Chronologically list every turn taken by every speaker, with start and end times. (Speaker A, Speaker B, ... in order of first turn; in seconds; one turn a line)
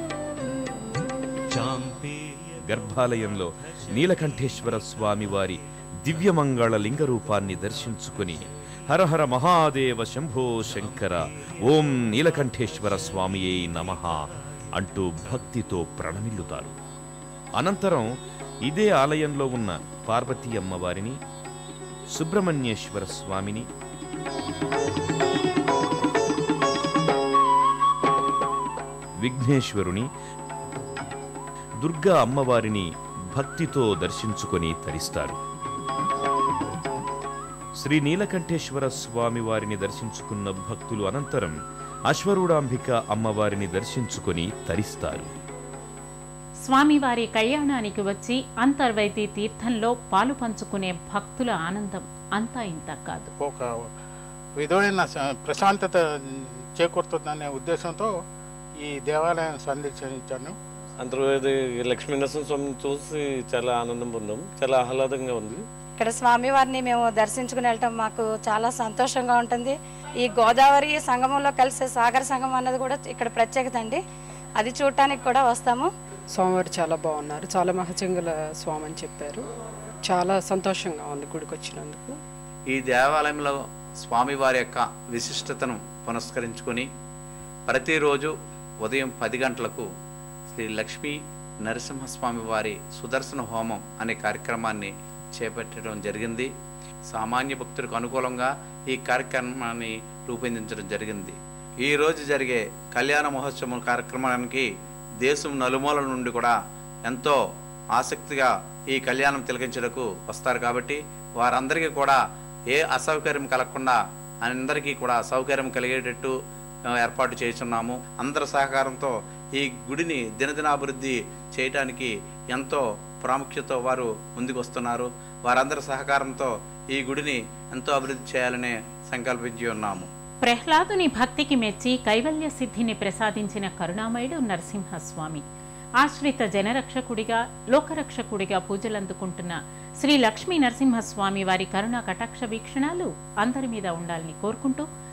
Speaker A: 1.5-16.7
Speaker A: 17.6-18.1
Speaker A: 18.6-21.2
Speaker A: 22.1-23.7
Speaker A: 29.2-30.1
Speaker A: 31.8-35.4
Speaker A: 37.8-41.5
Speaker A: 42.1-45.3
Speaker B: 46.6-53.3
Speaker C: 53.4-53.7
Speaker C: 54.6-58.1
Speaker C: 58.8-60.5
Speaker D: 61.0-65.6
Speaker E: 66.0-74.0
Speaker E: 74.6-75.9
Speaker F: 76.3-79.4
Speaker F: 80.0-82.1
Speaker G: 82.7-86.9
Speaker G: 87.7-89.8
Speaker G: 90.5-96.5
Speaker G: 97.1-104.7
Speaker G: 105.2-106.5
Speaker G: 107.0-107.4
Speaker G: 108.0-112.2
Speaker G: 112.7-116.3
Speaker G: 117.0-130.1
Speaker B: 130.4-135.4
Speaker B: 136.0-144.8